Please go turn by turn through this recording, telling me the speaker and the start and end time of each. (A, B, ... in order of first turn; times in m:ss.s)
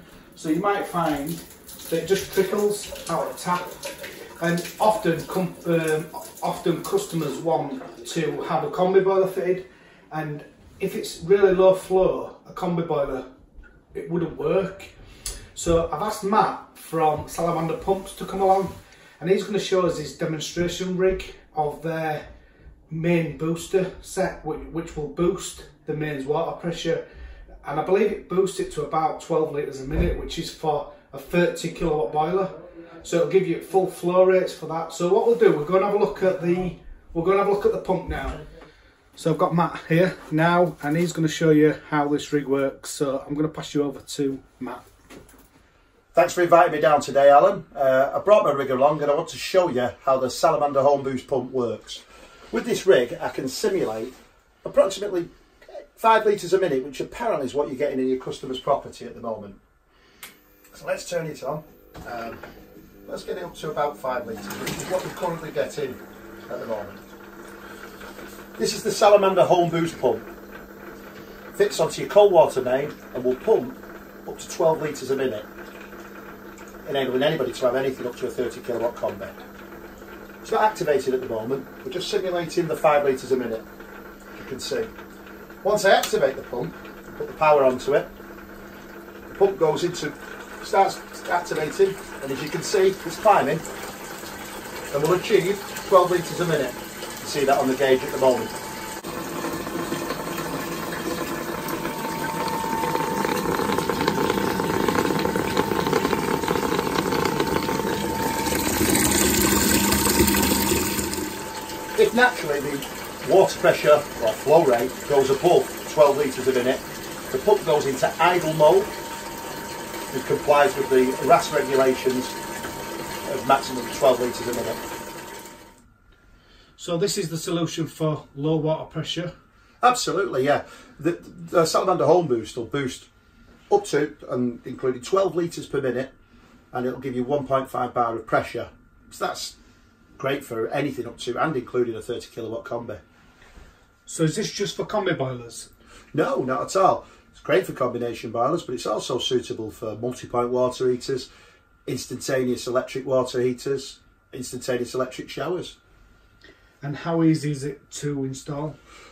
0:00.4-0:03.8 A
0:04.4-0:13.2 A
0:13.9-0:14.9 A
0:15.5-0:22.2 A
0:22.9-0:27.0 A
0:27.6-0:38.4 A
0:39.2-0:44.8 A
0:46.1-0:55.3 B
0:56.0-0:59.6 B
1:00.7-1:02.4 B
1:03.0-1:07.0 B
1:08.6-1:10.2 B
1:11.5-1:15.5 B
1:16.8-1:19.4 B
1:20.4-1:23.6 B
1:24.4-1:24.9 B
1:25.6-1:28.1 B
1:29.3-1:33.6 B
1:34.9-1:38.5 B
1:51.9-1:58.9 B
2:00.1-2:02.3 B
2:03.2-2:04.8 B
2:06.8-2:09.3 A
2:09.8-2:13.1 B
2:13.7-2:16.1 B
2:16.7-2:19.5 B
2:20.2-2:23.0 B
2:24.1-2:25.7 A
2:26.1-2:31.3 B
2:31.8-2:35.8 B
2:36.8-2:38.8 A